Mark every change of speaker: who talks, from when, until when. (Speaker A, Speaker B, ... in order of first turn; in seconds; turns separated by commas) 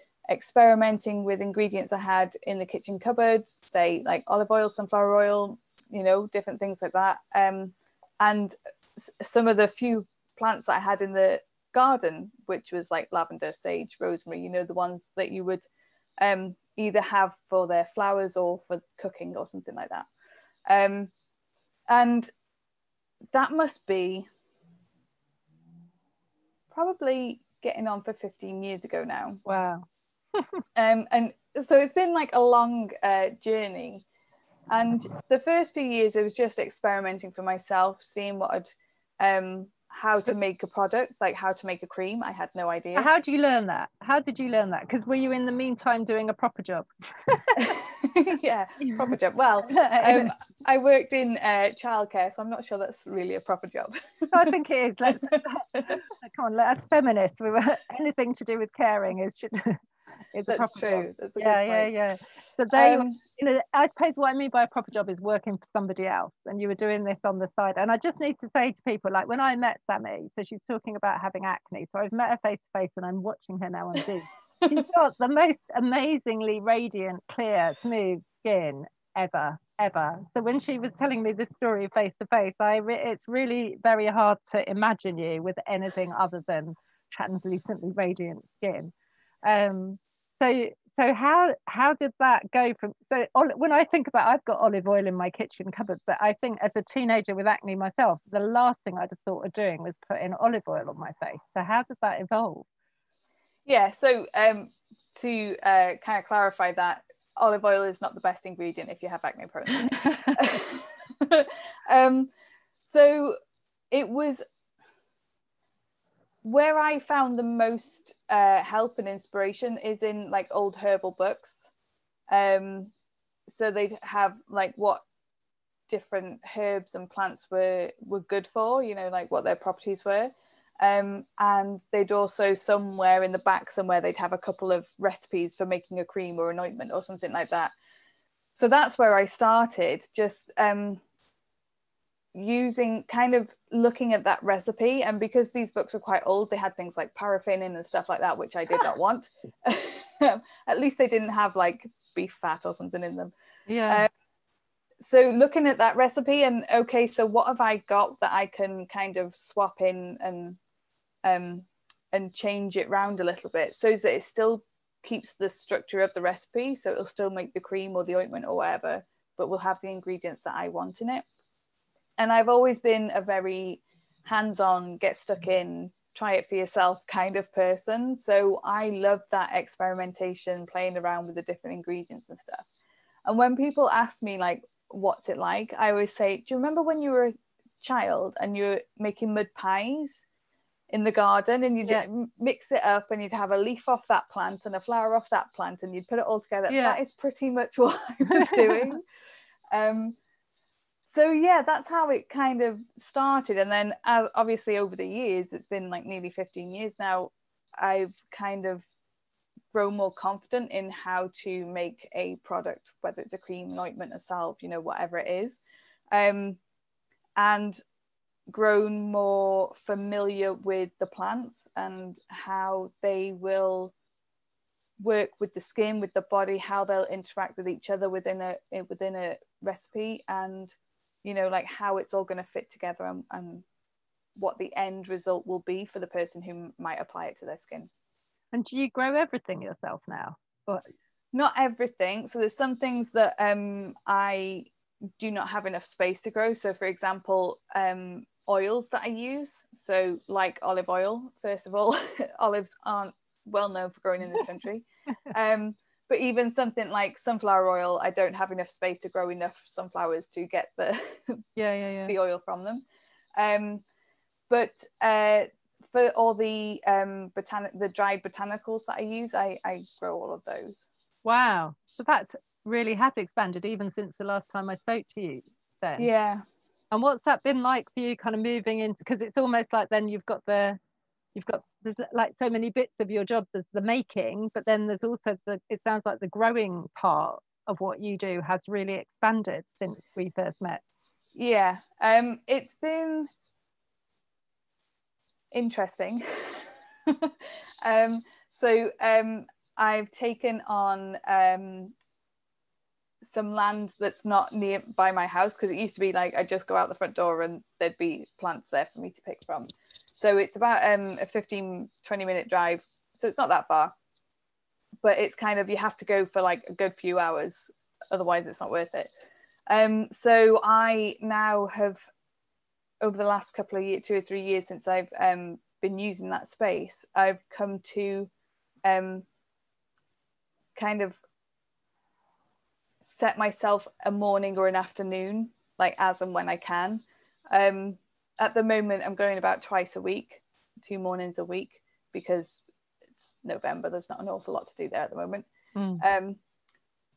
Speaker A: 0.3-15.7, Speaker A: 16.2-20.1, Speaker A: 20.7-21.1, Speaker A: 21.9-22.3, Speaker A: 23.3-24.3, Speaker A: 26.7-29.4, Speaker B: 29.4-29.9, Speaker A: 30.8-34.0, Speaker A: 34.7-43.1, Speaker B: 43.0-47.7, Speaker A: 47.6-54.5, Speaker B: 49.7-50.3, Speaker B: 54.3-59.8, Speaker A: 55.1-56.0, Speaker B: 60.3-88.9, Speaker A: 60.5-61.9, Speaker A: 62.7-63.2, Speaker B: 89.5-102.7, Speaker A: 103.7-112.3, Speaker A: 112.8-113.4, Speaker A: 113.9-114.4, Speaker A: 116.4-121.7, Speaker A: 122.3-122.9, Speaker A: 123.5-125.0, Speaker A: 125.9-137.7, Speaker A: 138.6-141.0, Speaker A: 142.3-153.3, Speaker B: 153.7-154.1, Speaker A: 155.0-160.6, Speaker A: 161.2-171.3, Speaker A: 172.2-182.7, Speaker A: 183.3-190.2, Speaker A: 190.9-199.0, Speaker B: 196.7-197.0, Speaker B: 198.3-198.9, Speaker A: 199.7-200.2, Speaker A: 201.1-208.9, Speaker A: 209.7-215.6, Speaker A: 216.1-216.6, Speaker A: 217.4-217.8, Speaker A: 218.5-223.9, Speaker A: 225.0-233.7, Speaker A: 234.4-237.9, Speaker B: 238.5-240.8, Speaker A: 241.3-261.4, Speaker B: 261.6-262.1, Speaker A: 262.1-262.8, Speaker A: 263.4-263.8, Speaker A: 264.5-270.9, Speaker B: 271.2-276.1, Speaker A: 276.0-276.4, Speaker B: 276.9-280.8, Speaker B: 281.4-290.8, Speaker A: 291.4-293.3, Speaker A: 295.5-297.3, Speaker A: 297.8-301.9, Speaker A: 303.2-313.9, Speaker A: 315.0-319.1, Speaker A: 319.7-322.1, Speaker A: 323.0-328.3, Speaker A: 328.9-329.3, Speaker A: 330.8-331.2, Speaker A: 333.0-342.6, Speaker A: 343.2-345.5, Speaker B: 345.8-346.0, Speaker A: 346.0-346.4